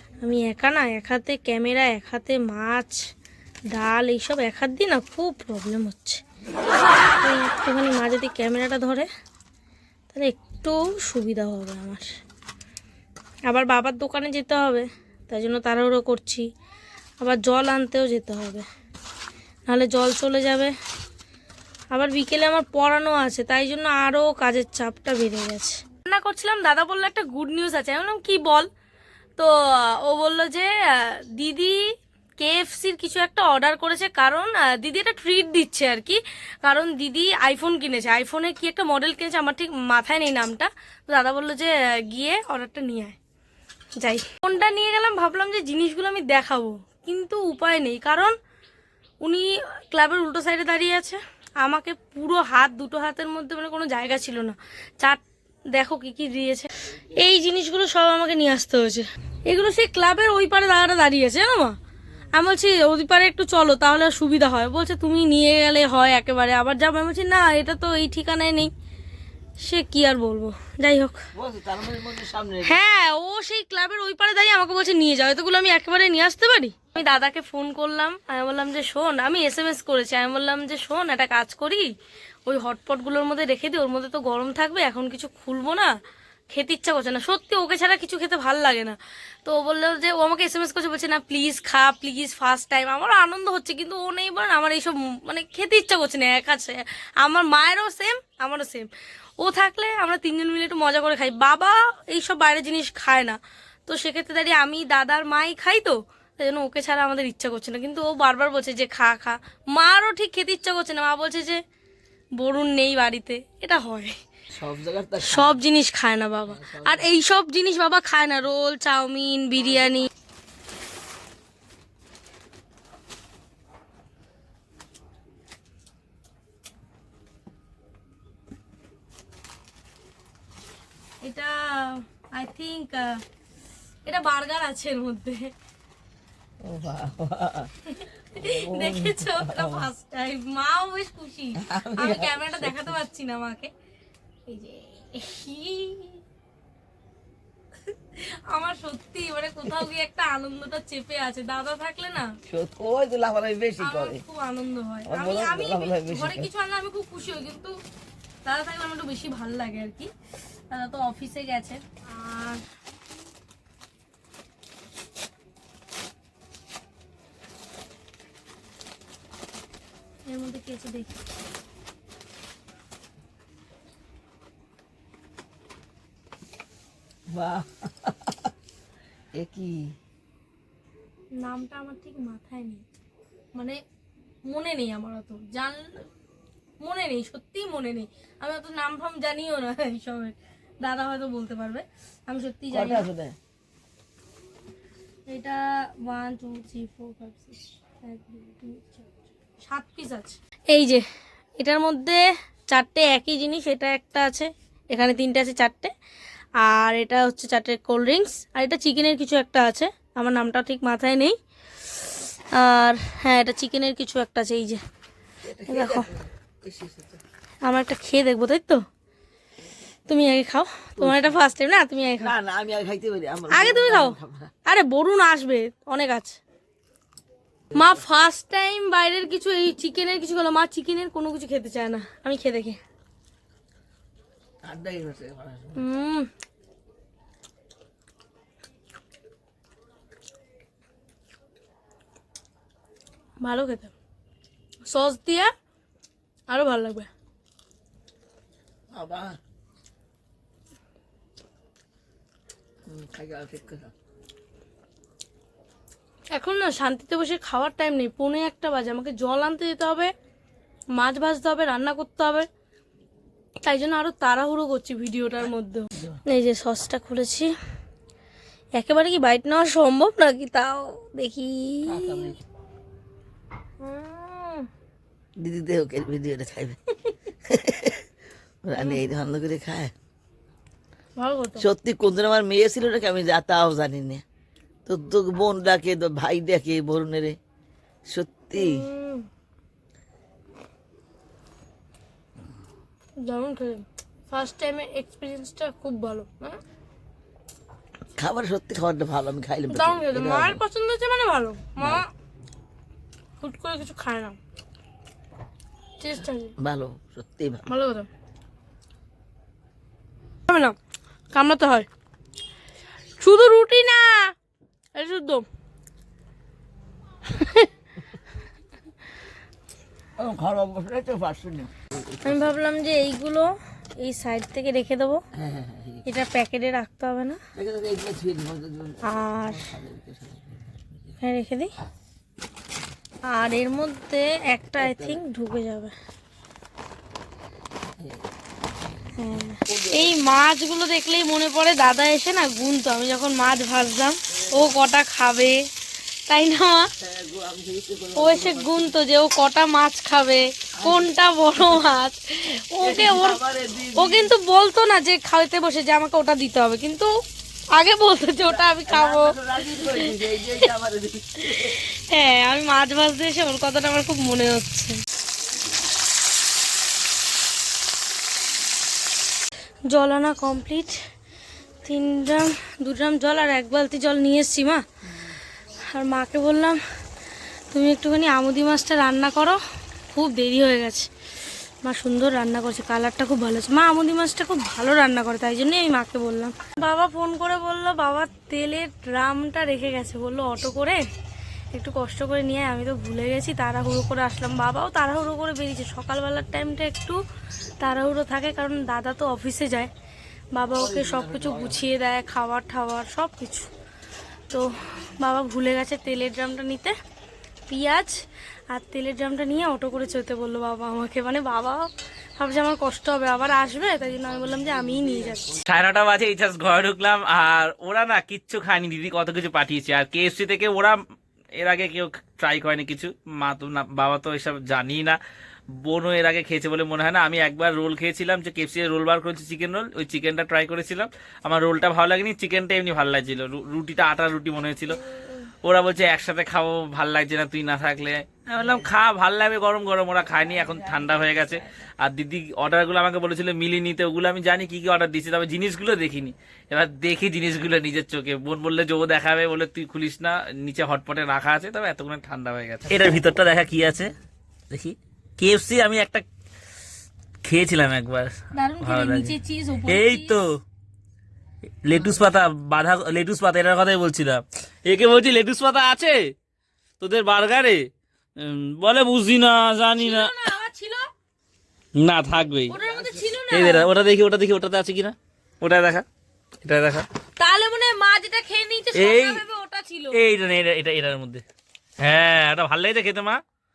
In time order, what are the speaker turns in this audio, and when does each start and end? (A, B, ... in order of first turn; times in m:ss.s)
0:00.2-0:03.0 A
0:03.7-0:06.2 A
0:07.2-0:09.1 A
0:10.1-0:12.0 A
0:13.5-0:16.5 A
0:17.2-0:18.6 A
0:19.7-0:20.7 A
0:21.9-0:28.7 A
0:29.4-0:31.8 A
0:32.4-0:43.2 A
0:44.0-0:48.3 A
0:49.2-0:55.2 A
0:55.7-1:01.8 A
1:02.3-1:08.7 A
1:09.6-1:11.2 A
1:11.3-1:12.8 B
1:12.6-1:21.9 A
1:22.4-1:25.9 A
1:26.5-1:38.9 A
1:39.4-1:51.6 A
1:52.4-1:54.1 A
1:54.5-1:55.6 B
1:55.2-2:00.1 A
1:56.5-1:57.1 B
1:59.6-1:59.9 B
2:11.2-2:13.1 A
2:14.0-2:15.5 A
2:16.6-2:17.7 B
2:17.9-2:23.7 A
2:18.3-2:19.9 B
2:21.6-2:23.0 B
2:24.5-2:26.2 A
2:28.2-2:32.3 A
2:32.5-2:34.2 B
2:33.8-2:37.7 A
2:35.0-2:36.5 B
2:38.4-2:40.1 A
2:40.7-2:42.6 A
2:50.3-2:51.2 A
2:57.3-2:58.5 B
2:59.3-3:00.0 B
3:01.4-3:02.8 A
3:03.5-3:03.8 A
3:04.4-3:06.1 A
3:06.8-3:13.0 A
3:12.7-3:13.4 B
3:15.3-3:19.1 A
3:19.6-3:21.0 A
3:21.6-3:25.9 A
3:26.6-3:31.4 A
3:31.9-3:34.8 A
3:35.4-3:37.2 B
3:35.7-3:36.0 A
3:37.6-3:38.8 A
3:40.1-3:42.3 A
3:41.0-3:41.4 B
3:42.2-3:44.5 B
3:43.5-3:46.4 A
3:47.7-3:48.0 B
3:47.7-3:52.8 A
3:54.6-3:55.8 B
3:55.8-3:56.3 A
4:03.4-4:03.9 A
4:04.8-4:05.5 A
4:06.5-4:07.1 A
4:08.9-4:09.4 B
4:12.9-4:13.9 B
4:16.3-4:20.1 A
4:21.0-4:22.5 A
4:23.6-4:27.5 A
4:28.8-4:32.2 A
4:31.9-4:32.4 B
4:33.8-4:34.7 A
4:35.4-4:36.8 B
4:37.5-4:38.0 B
4:38.6-4:39.9 B
4:41.2-4:41.6 A
4:41.6-4:44.2 B
4:44.9-4:47.4 B
4:48.1-4:48.9 B
4:48.6-4:49.2 A
4:53.2-4:56.6 A
4:58.2-5:00.6 B
4:59.7-5:02.0 A
5:03.4-5:04.4 A
5:06.0-5:06.5 A
5:06.6-5:07.6 B
5:07.7-5:08.1 A
5:10.5-5:10.8 A
5:11.3-5:11.9 A
5:13.2-5:14.3 A
5:14.9-5:15.4 A
5:17.3-5:17.7 A
5:20.2-5:22.5 B
5:22.2-5:25.2 A
5:25.4-5:26.0 B
5:26.0-5:27.4 A
5:27.5-5:31.2 B
5:29.1-5:29.6 A
5:31.2-5:31.7 A
5:33.3-5:35.9 A
5:34.8-5:35.2 B
5:38.0-5:38.2 B
5:39.2-5:45.6 A
5:39.7-5:40.2 B
5:46.3-5:46.9 A
5:47.0-5:48.9 B
5:48.2-5:53.4 A
5:50.8-5:51.1 B
5:52.8-5:54.3 B
5:54.0-5:57.1 A
5:57.8-6:00.1 A
5:58.5-6:01.8 B
6:01.7-6:05.0 A
6:09.9-6:11.0 A
6:11.8-6:14.8 A
6:15.9-6:16.8 A
6:17.7-6:19.6 A
6:20.1-6:21.1 A
6:21.8-6:31.0 A
6:31.7-6:37.2 A
6:37.8-6:39.9 A
6:40.5-6:43.7 A
6:40.8-6:41.9 B
6:44.5-6:46.9 A
6:47.7-6:48.1 A
6:48.7-6:55.6 A
6:54.0-6:55.7 B
6:55.7-7:01.0 C
7:01.6-7:05.2 C
7:05.8-7:15.0 C
7:15.6-7:34.1 C
7:18.6-7:18.9 B
7:20.2-7:21.8 B
7:34.7-7:36.2 C
7:37.4-7:39.4 C
7:38.5-7:40.4 A
7:39.9-7:40.5 C
7:41.8-7:46.3 C
7:47.0-7:47.9 C
7:48.4-7:50.3 C
7:50.0-7:51.0 A
7:51.9-7:52.8 C
7:52.7-7:53.9 A
7:52.7-7:53.4 B
7:53.5-7:56.0 C
7:56.6-7:57.1 C
7:57.4-8:00.2 A
7:58.9-7:59.4 C
8:00.1-8:01.4 C
8:02.0-8:03.4 C